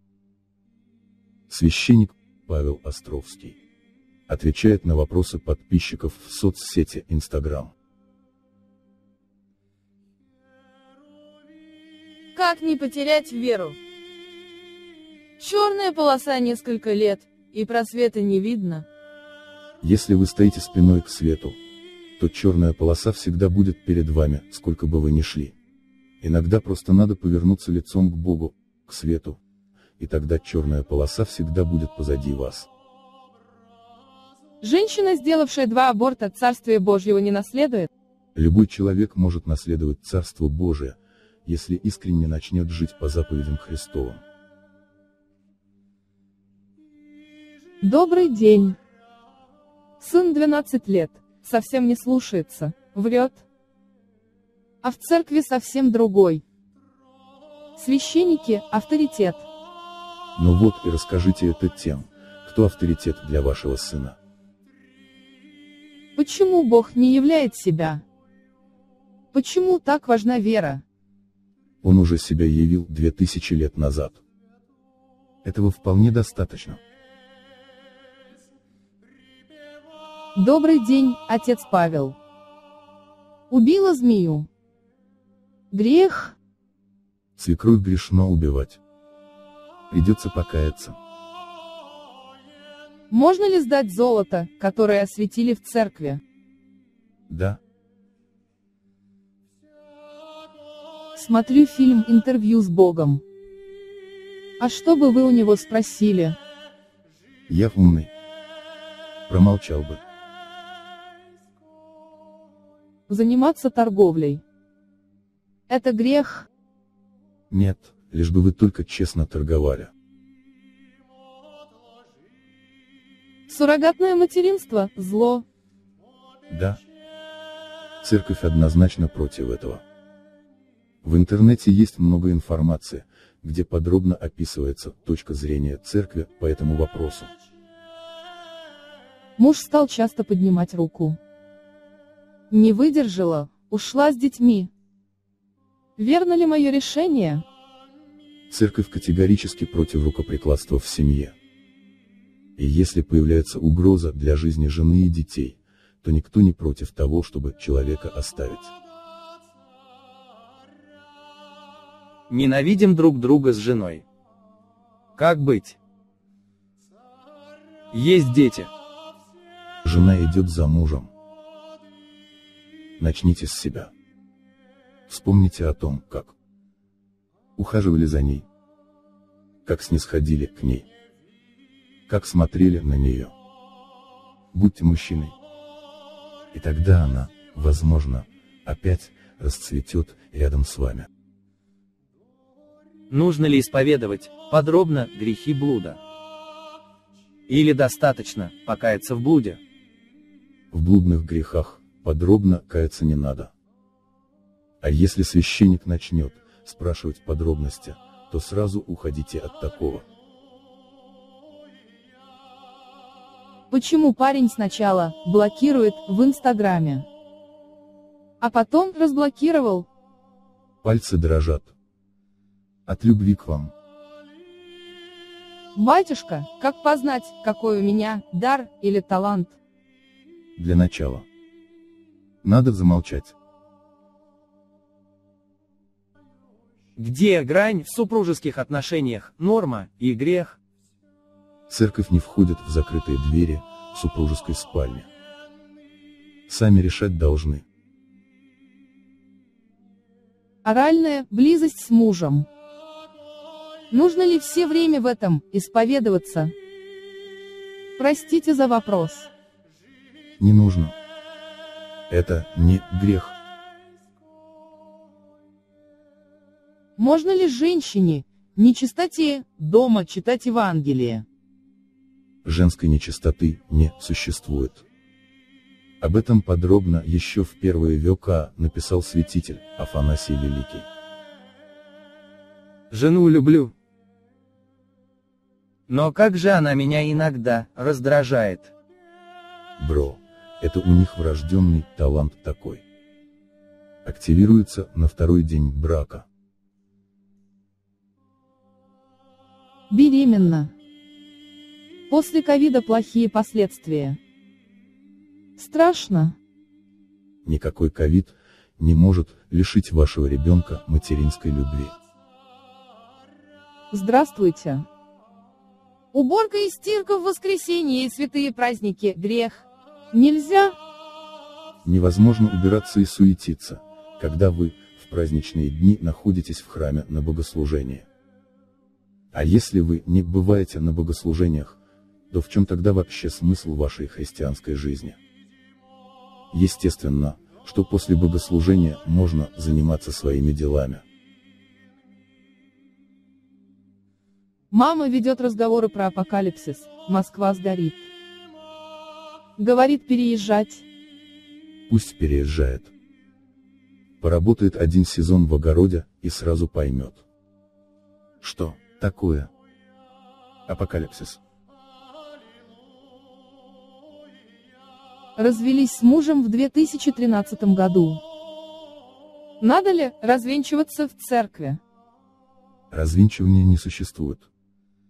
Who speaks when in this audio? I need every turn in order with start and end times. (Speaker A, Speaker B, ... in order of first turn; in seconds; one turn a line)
Speaker A: 1.5-3.6
Speaker A: 4.3-7.7
Speaker B: 12.3-13.8
Speaker B: 15.4-18.9
Speaker A: 19.8-21.6
Speaker A: 22.2-25.6
Speaker A: 26.2-29.4
Speaker A: 30.0-32.7
Speaker B: 34.6-37.9
Speaker A: 38.3-44.2
Speaker B: 47.8-48.8
Speaker B: 50.0-53.4
Speaker B: 54.8-56.4
Speaker B: 57.8-59.5
Speaker A: 60.4-64.2
Speaker B: 66.2-68.0
Speaker B: 69.3-70.8
Speaker A: 71.8-74.2
Speaker A: 75.4-76.8
Speaker B: 80.3-82.2
Speaker B: 83.5-84.5
Speaker B: 85.7-86.3
Speaker A: 87.4-88.8
Speaker A: 89.9-91.0
Speaker B: 93.1-96.2
Speaker A: 97.3-97.6
Speaker B: 101.1-103.2
Speaker B: 104.6-106.4
Speaker A: 107.5-108.1
Speaker A: 109.3-110.0
Speaker B: 113.1-114.4
Speaker B: 115.7-116.5
Speaker A: 117.5-119.9
Speaker B: 123.5-125.4
Speaker A: 126.5-126.8
Speaker A: 128.0-129.8
Speaker A: 131.0-137.3
Speaker B: 139.4-141.2
Speaker B: 142.5-144.7
Speaker B: 146.0-147.4
Speaker A: 148.5-151.3
Speaker A: 152.6-158.7
Speaker C: 162.3-164.0
Speaker C: 165.2-165.8
Speaker C: 167.9-168.7
Speaker A: 169.8-171.1
Speaker A: 173.0-173.9
Speaker A: 175.1-176.3
Speaker A: 177.6-178.4
Speaker A: 179.6-180.8
Speaker A: 182.1-183.3
Speaker A: 184.5-185.3
Speaker A: 186.5-191.1
Speaker C: 193.1-196.0
Speaker C: 197.5-199.6
Speaker A: 200.7-203.5
Speaker A: 204.8-210.0
Speaker B: 213.7-217.1
Speaker B: 218.4-219.9
Speaker A: 220.8-221.7
Speaker A: 222.8-223.7
Speaker B: 225.7-229.6
Speaker A: 230.6-231.2
Speaker A: 232.4-233.3
Speaker C: 237.0-240.6
Speaker A: 241.7-245.1
Speaker A: 246.5-247.6
Speaker B: 250.6-252.5
Speaker B: 253.9-256.5
Speaker B: 258.0-259.3
Speaker A: 260.4-260.9
Speaker A: 262.1-263.4
Speaker B: 267.0-271.2
Speaker A: 272.4-274.8
Speaker A: 276.0-280.9
Speaker C: 282.9-283.7
Speaker C: 285.9-288.7
Speaker A: 289.8-292.8
Speaker A: 294.0-296.3
Speaker B: 299.9-300.7
Speaker B: 302.1-304.2
Speaker B: 305.6-306.4
Speaker A: 307.4-311.9
Speaker B: 313.9-314.9
Speaker B: 316.1-320.8
Speaker A: 321.8-328.1
Speaker A: 329.3-331.8
Speaker A: 332.3-335.2
Speaker A: 336.5-341.0
Speaker B: 344.7-348.1
Speaker B: 349.6-350.8
Speaker A: 351.9-352.9
Speaker A: 354.2-357.2
Speaker A: 358.4-359.5
Speaker A: 360.7-361.4
Speaker B: 365.4-368.2
Speaker B: 369.6-371.8
Speaker A: 372.9-374.5